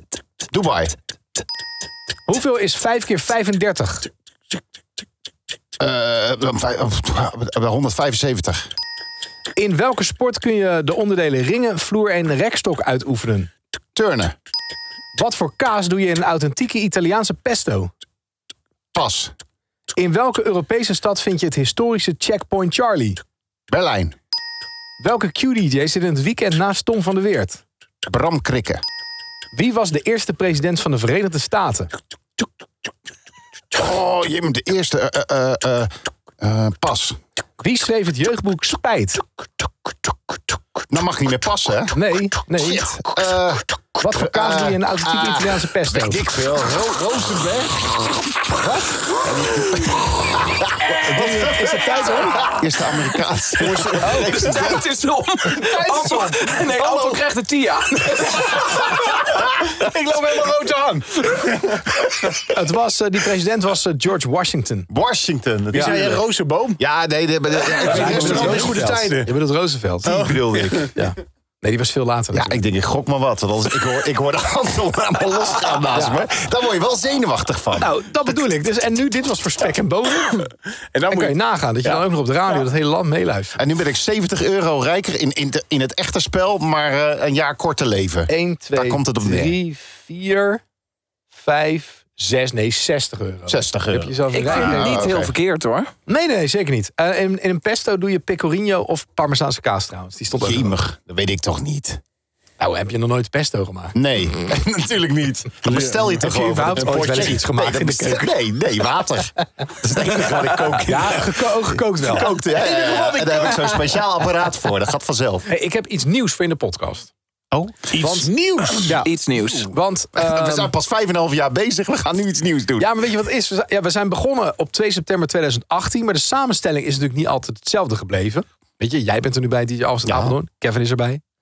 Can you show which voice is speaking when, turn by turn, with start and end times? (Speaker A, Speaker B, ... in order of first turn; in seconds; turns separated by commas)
Speaker A: 0.5-0.9, Speaker B: 2.3-4.1, Speaker A: 5.8-8.7, Speaker B: 9.6-13.5, Speaker A: 13.9-14.3, Speaker B: 15.1-17.9, Speaker A: 18.9-19.3, Speaker B: 19.9-23.2, Speaker A: 23.7-24.1, Speaker B: 25.0-27.6, Speaker A: 28.1-28.8, Speaker B: 29.5-31.9, Speaker A: 33.7-37.2, Speaker B: 37.6-39.2, Speaker A: 40.9-51.5, Speaker B: 41.9-43.0, Speaker B: 44.0-46.2, Speaker B: 48.6-48.9, Speaker B: 51.0-52.5, Speaker C: 51.2-51.6, Speaker C: 52.3-52.5, Speaker A: 52.4-54.8, Speaker C: 53.6-54.2, Speaker B: 54.0-54.3, Speaker D: 54.0-58.8, Speaker C: 55.6-56.4, Speaker A: 56.8-57.1, Speaker C: 59.1-62.5, Speaker B: 62.5-64.9, Speaker A: 64.9-66.2, Speaker C: 65.7-66.8, Speaker B: 65.7-66.1, Speaker A: 66.8-68.8, Speaker C: 67.8-69.3, Speaker B: 67.8-70.1, Speaker A: 70.0-70.9, Speaker C: 70.0-70.9, Speaker B: 70.9-72.6, Speaker A: 72.3-77.9, Speaker B: 75.9-76.2, Speaker B: 77.8-80.5, Speaker C: 80.9-82.0, Speaker B: 81.1-83.5, Speaker A: 83.5-89.6, Speaker B: 88.3-90.6, Speaker B: 91.3-95.1, Speaker A: 93.5-95.3, Speaker D: 94.3-95.9, Speaker B: 96.1-100.8, Speaker A: 100.4-102.0, Speaker B: 102.6-104.0, Speaker A: 103.9-111.3, Speaker C: 105.7-106.0, Speaker B: 105.9-108.3, Speaker C: 106.9-107.2, Speaker C: 110.2-111.3, Speaker B: 110.8-112.3, Speaker A: 112.0-115.5, Speaker C: 112.9-113.3, Speaker B: 115.5-117.1, Speaker A: 117.5-117.8, Speaker C: 117.9-119.0, Speaker B: 118.0-118.3, Speaker B: 118.8-120.7, Speaker D: 118.9-119.7, Speaker A: 120.1-122.9, Speaker B: 122.8-131.2, Speaker A: 130.1-130.3